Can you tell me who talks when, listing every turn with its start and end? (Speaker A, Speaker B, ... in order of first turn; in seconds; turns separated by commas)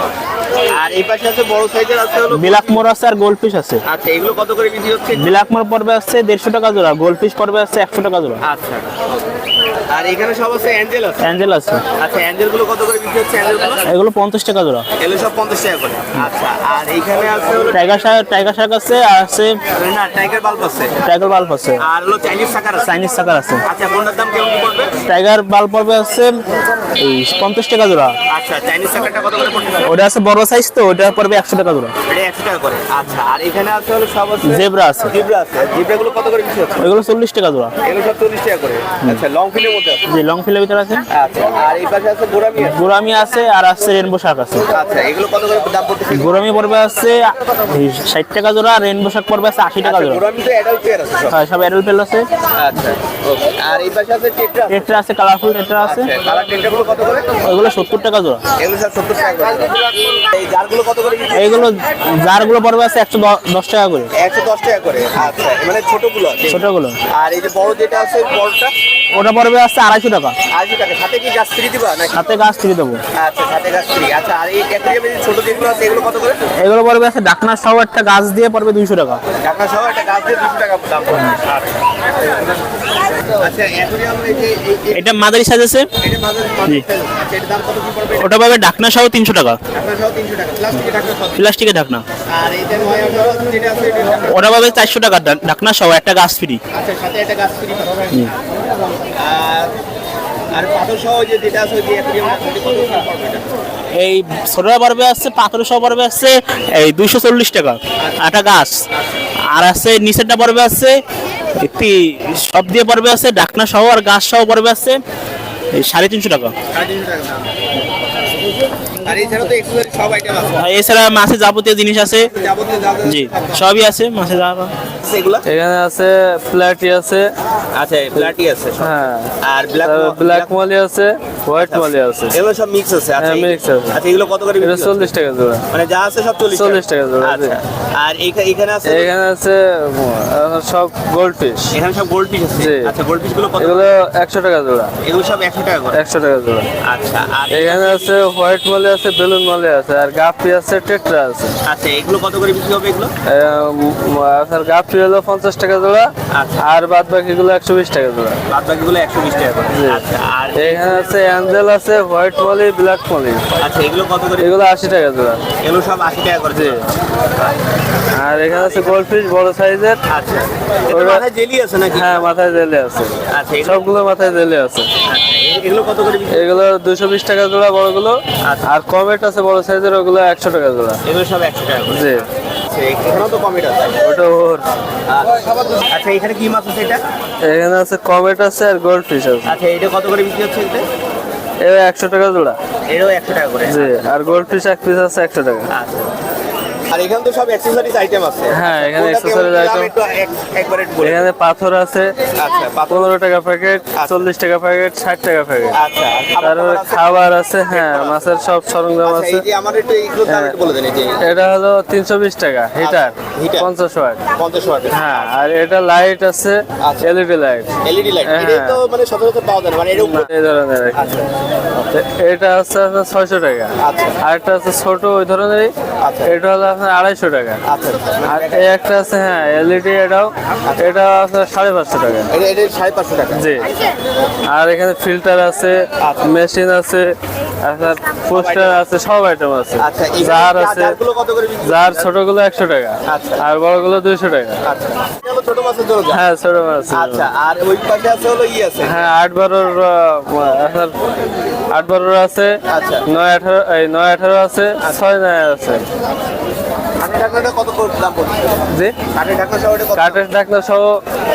Speaker A: 0.7-2.7, Speaker B: 2.3-3.8, Speaker A: 3.9-5.3, Speaker B: 5.1-8.4, Speaker A: 8.4-8.9, Speaker A: 9.9-11.3, Speaker B: 11.2-11.8, Speaker A: 11.9-13.8, Speaker B: 13.8-14.8, Speaker A: 15.0-18.0, Speaker B: 17.7-19.6, Speaker A: 19.7-20.9, Speaker B: 21.0-21.8, Speaker A: 21.8-22.9, Speaker B: 22.8-23.6, Speaker A: 23.6-24.9, Speaker B: 25.1-26.3, Speaker B: 27.0-28.1, Speaker A: 28.3-29.8, Speaker B: 29.8-31.9, Speaker A: 32.1-36.8, Speaker B: 34.5-35.1, Speaker B: 36.8-37.7, Speaker A: 37.8-40.0, Speaker B: 40.1-41.0, Speaker A: 41.1-42.8, Speaker B: 42.6-44.6, Speaker A: 44.7-46.3, Speaker B: 46.1-50.2, Speaker A: 49.8-51.4, Speaker B: 51.3-52.2, Speaker A: 52.5-54.9, Speaker B: 54.7-56.1, Speaker A: 55.8-57.3, Speaker B: 57.4-58.4, Speaker A: 58.6-61.7, Speaker B: 61.3-64.1, Speaker A: 64.2-68.7, Speaker B: 66.5-67.0, Speaker B: 69.1-70.3, Speaker A: 70.5-72.2, Speaker B: 72.1-73.0, Speaker A: 73.1-76.4, Speaker B: 76.6-79.2, Speaker A: 79.4-81.8, Speaker A: 83.3-85.2, Speaker B: 84.9-85.9, Speaker A: 86.0-88.3, Speaker B: 88.2-89.6, Speaker A: 89.7-91.4, Speaker B: 91.3-92.0, Speaker A: 92.3-94.4, Speaker B: 94.3-96.6, Speaker A: 96.7-98.2, Speaker A: 99.1-99.7, Speaker A: 100.5-103.5, Speaker B: 103.9-108.8, Speaker A: 108.0-108.4, Speaker B: 109.5-111.0, Speaker B: 111.6-115.0, Speaker B: 115.7-116.5, Speaker A: 116.7-117.5, Speaker A: 119.0-120.6, Speaker B: 120.6-122.3, Speaker A: 122.3-123.6, Speaker B: 123.0-124.7, Speaker A: 125.0-125.4, Speaker C: 125.4-127.3, Speaker A: 127.7-128.9, Speaker C: 128.2-132.4, Speaker A: 129.4-130.5, Speaker A: 131.6-135.1, Speaker C: 133.2-134.0, Speaker C: 134.6-135.7, Speaker A: 135.7-139.1, Speaker C: 136.5-137.6, Speaker C: 138.8-141.7, Speaker A: 141.7-143.9, Speaker C: 142.6-142.9, Speaker C: 143.6-144.9, Speaker A: 145.0-146.0, Speaker C: 145.9-146.7, Speaker A: 146.8-148.1, Speaker C: 147.5-151.5, Speaker A: 151.6-153.1, Speaker C: 153.3-158.4, Speaker A: 156.3-156.6, Speaker A: 158.5-161.3, Speaker C: 159.7-163.5, Speaker A: 163.6-164.5, Speaker C: 164.4-165.4, Speaker A: 165.6-166.8, Speaker C: 166.5-166.8, Speaker C: 168.1-170.0, Speaker A: 168.5-169.0, Speaker A: 170.1-172.3, Speaker C: 170.9-171.2, Speaker C: 171.9-174.9, Speaker A: 173.3-173.9, Speaker A: 175.0-176.6, Speaker C: 176.3-181.0, Speaker A: 181.0-184.0, Speaker C: 181.9-182.2, Speaker C: 184.0-184.7, Speaker A: 185.1-187.0, Speaker C: 187.4-189.5, Speaker A: 189.4-190.8, Speaker C: 191.6-192.6, Speaker A: 192.9-194.1, Speaker C: 193.7-195.7, Speaker A: 195.7-196.1, Speaker A: 196.9-201.3, Speaker C: 198.5-199.9, Speaker C: 201.0-202.1, Speaker A: 202.3-203.1, Speaker C: 202.9-205.8, Speaker A: 205.7-208.2, Speaker C: 206.4-209.4, Speaker A: 209.0-211.3, Speaker C: 210.3-210.6, Speaker C: 211.2-214.2, Speaker A: 212.8-213.7, Speaker A: 214.3-215.3, Speaker C: 214.9-218.8, Speaker A: 216.8-217.1, Speaker A: 217.8-220.3, Speaker C: 219.9-225.7, Speaker A: 220.9-221.2, Speaker A: 223.8-224.2, Speaker A: 226.0-226.3, Speaker C: 226.2-227.6, Speaker A: 227.7-228.7, Speaker C: 228.3-232.3, Speaker A: 232.3-233.4, Speaker C: 233.3-233.7, Speaker C: 234.4-241.0, Speaker A: 236.0-236.4, Speaker A: 238.3-238.8, Speaker A: 239.8-242.1, Speaker C: 241.6-244.6, Speaker A: 243.1-243.4, Speaker A: 244.6-246.2, Speaker C: 246.1-247.3, Speaker A: 246.9-249.0, Speaker C: 248.8-250.9, Speaker C: 251.7-255.8, Speaker A: 252.7-253.0, Speaker A: 257.0-260.2, Speaker C: 258.7-259.0, Speaker C: 259.9-261.0